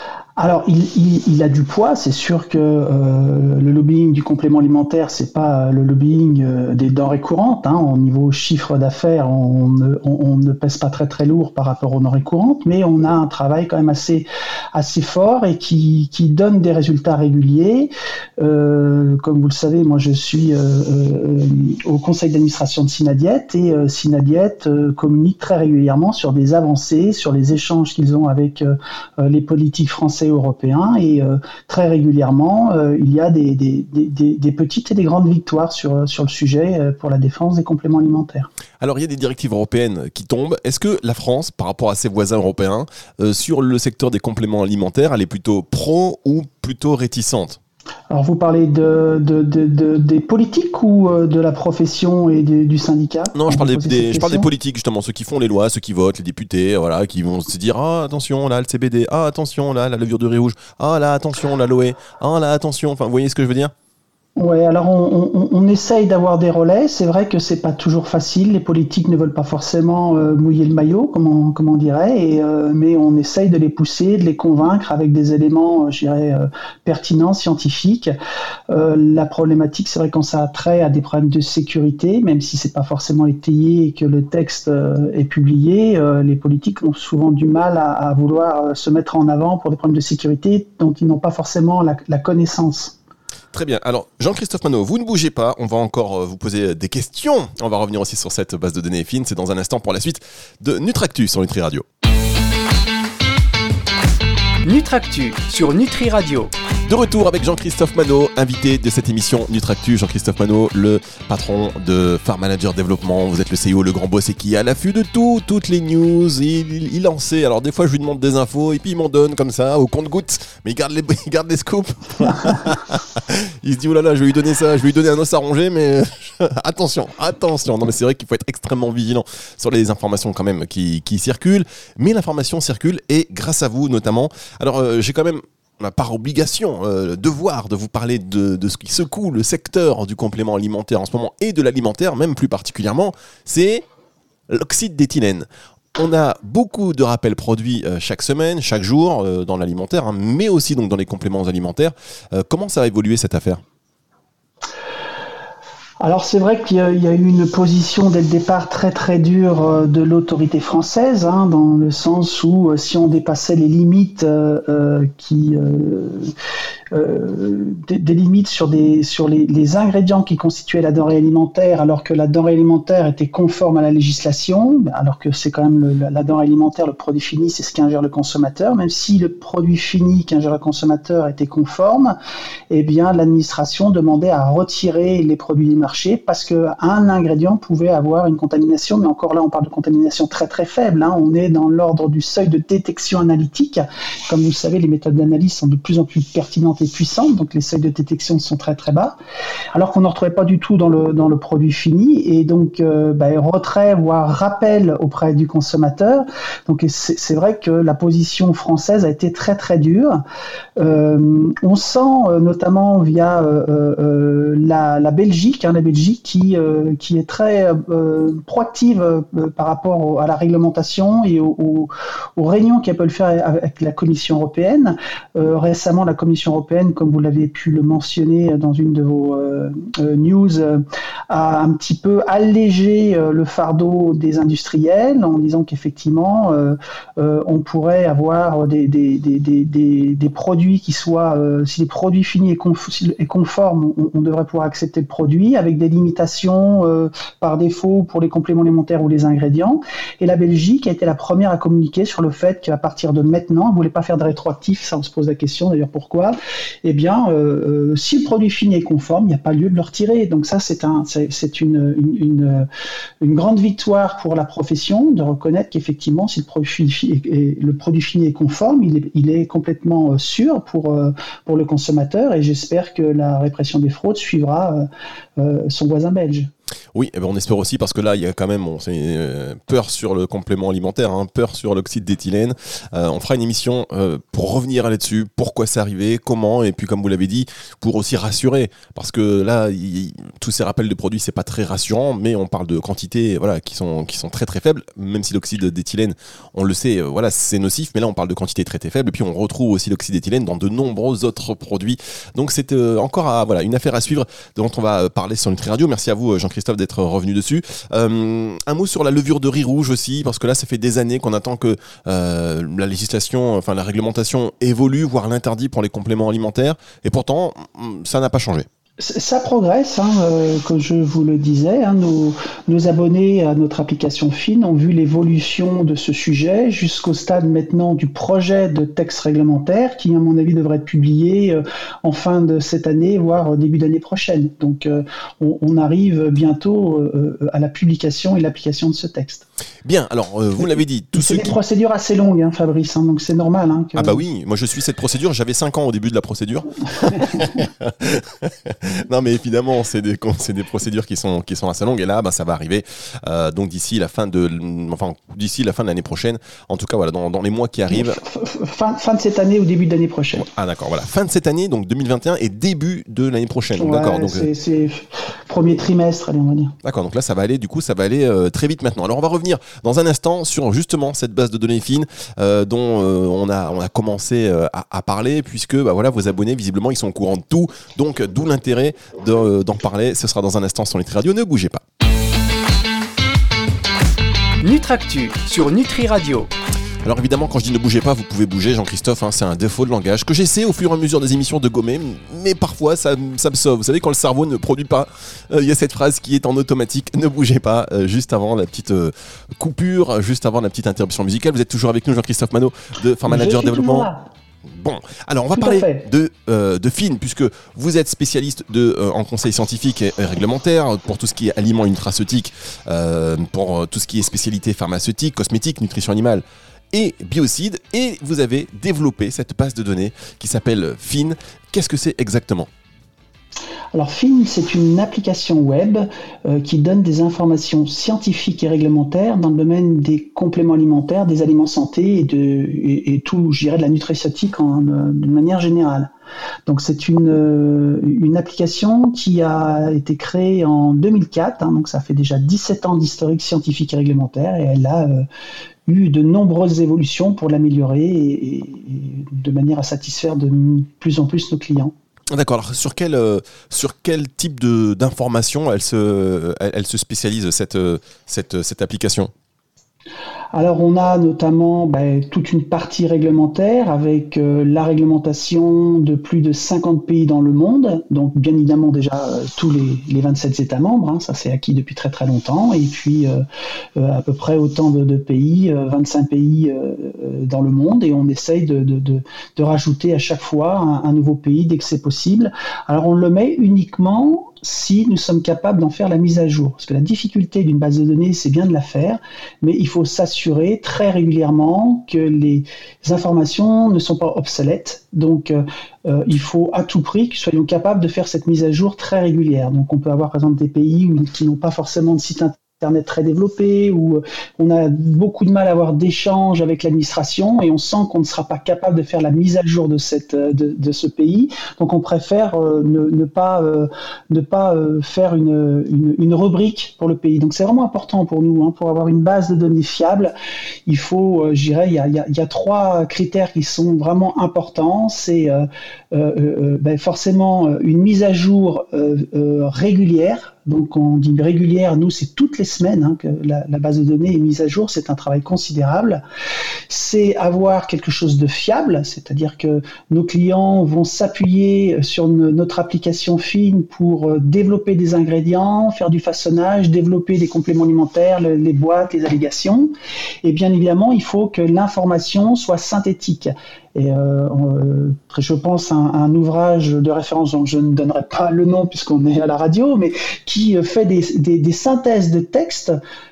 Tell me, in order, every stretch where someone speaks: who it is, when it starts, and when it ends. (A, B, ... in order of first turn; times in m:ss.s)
0:00.4-0:38.5 A
0:38.8-0:47.6 B
0:48.1-0:54.5 A
0:53.3-1:03.7 B
1:04.4-1:18.1 A
1:18.7-1:33.0 A
1:33.5-1:41.8 B
1:44.6-1:46.5 C
1:46.8-2:23.8 B
2:24.5-2:33.6 B
2:36.0-2:46.3 A
2:46.9-3:02.2 A
3:02.7-3:19.2 A
3:19.7-3:30.2 A
3:30.8-4:22.7 A
4:23.2-4:34.9 A
4:35.4-4:36.5 A
4:36.9-5:18.7 B
5:19.0-5:39.5 A
5:39.8-5:41.6 B
5:41.1-5:44.2 A
5:44.0-5:58.2 B
5:57.9-6:00.5 A
6:00.4-6:04.5 B
6:03.8-6:06.7 A
6:06.8-6:21.8 B
6:24.6-6:26.5 C
6:27.0-6:44.1 B
6:43.2-6:44.2 A
6:44.8-7:02.7 B
6:45.6-6:46.1 A
7:03.9-7:16.1 A
7:16.7-7:25.2 A
7:25.9-7:31.9 A
7:32.3-7:39.3 B
7:40.5-7:53.4 A
7:54.0-8:40.3 A
8:40.9-8:56.2 A
8:56.9-9:09.9 A
9:10.4-9:22.9 A